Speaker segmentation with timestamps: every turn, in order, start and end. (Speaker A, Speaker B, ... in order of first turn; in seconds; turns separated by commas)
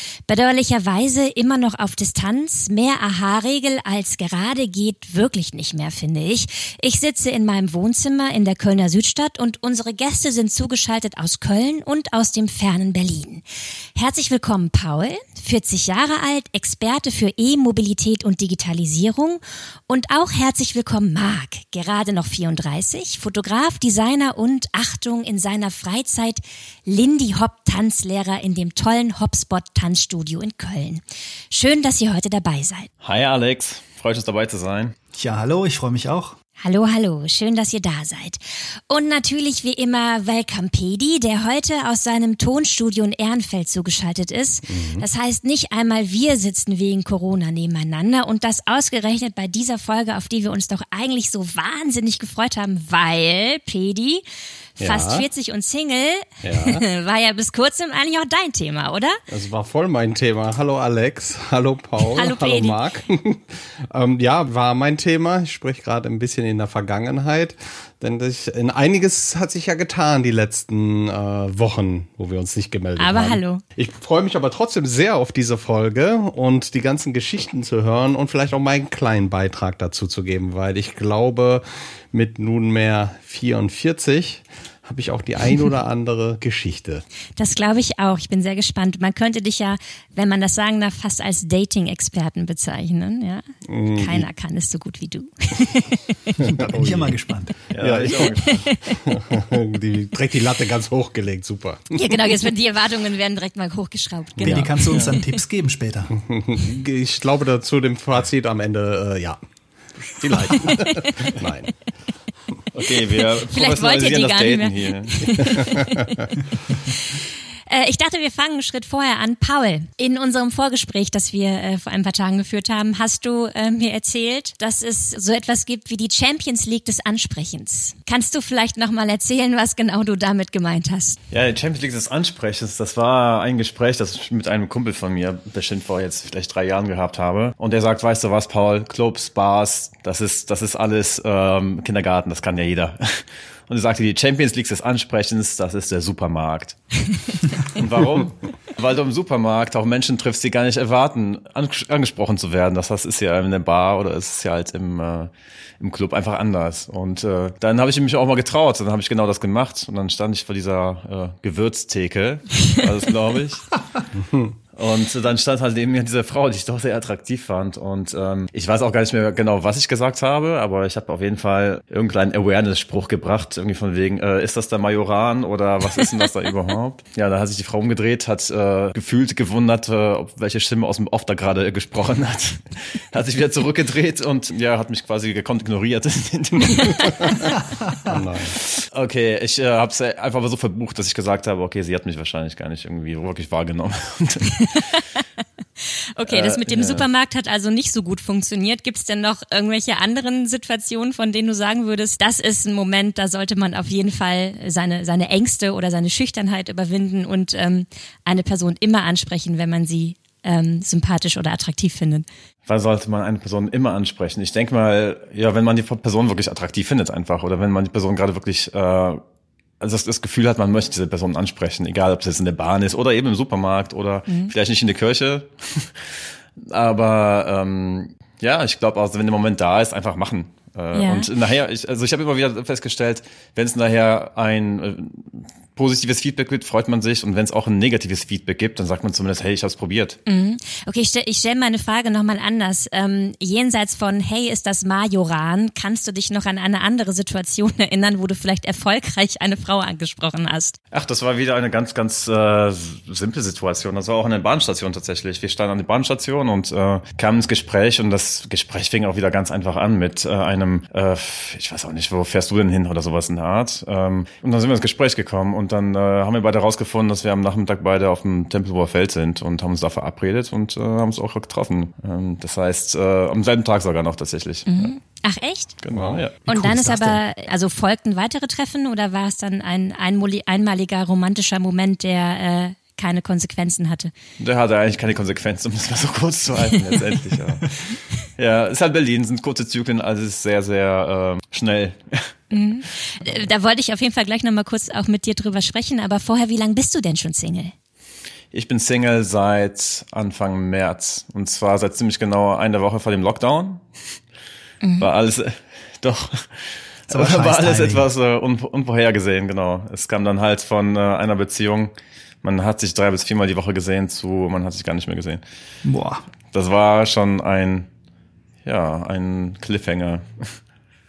Speaker A: 0.3-13.4, Speaker A: 13.9-32.9, Speaker B: 33.0-35.0, Speaker C: 35.1-36.4, Speaker A: 36.6-54.2, Speaker D: 44.7-45.1, Speaker A: 54.8-59.2, Speaker D: 54.8-55.3, Speaker D: 56.4-56.8, Speaker D: 59.3-87.0, Speaker A: 62.1-62.8, Speaker A: 73.0-73.6, Speaker A: 87.4-96.5, Speaker D: 93.7-94.3, Speaker D: 96.4-97.2, Speaker C: 96.4-97.6, Speaker B: 97.7-98.7, Speaker D: 97.8-102.0, Speaker A: 98.2-99.0, Speaker A: 102.0-105.2, Speaker D: 104.4-105.2, Speaker C: 104.4-106.1, Speaker D: 106.2-109.4, Speaker D: 110.0-111.7, Speaker A: 110.5-111.4, Speaker B: 112.7-115.7, Speaker A: 113.4-131.2, Speaker D: 115.3-116.3, Speaker B: 131.3-146.8, Speaker B: 147.7-163.8, Speaker D: 164.2-164.5, Speaker B: 164.8-187.5, Speaker D: 188.0-188.6, Speaker B: 188.6-194.9, Speaker A: 194.7-195.0, Speaker A: 196.2-212.3, Speaker B: 196.3-197.0, Speaker B: 212.7-219.2, Speaker B: 219.8-240.2, Speaker A: 230.9-231.3, Speaker A: 240.3-250.8, Speaker B: 250.9-274.9, Speaker A: 274.7-275.8, Speaker B: 275.8-276.4, Speaker D: 275.9-276.2, Speaker C: 276.5-277.2, Speaker A: 276.5-284.1, Speaker B: 284.4-287.8, Speaker B: 288.4-292.4, Speaker A: 292.5-297.7, Speaker B: 298.5-303.8, Speaker A: 304.8-305.1, Speaker B: 305.0-311.9, Speaker C: 307.1-308.1, Speaker B: 312.4-315.4, Speaker C: 315.8-316.2, Speaker B: 316.5-317.9, Speaker B: 318.6-320.6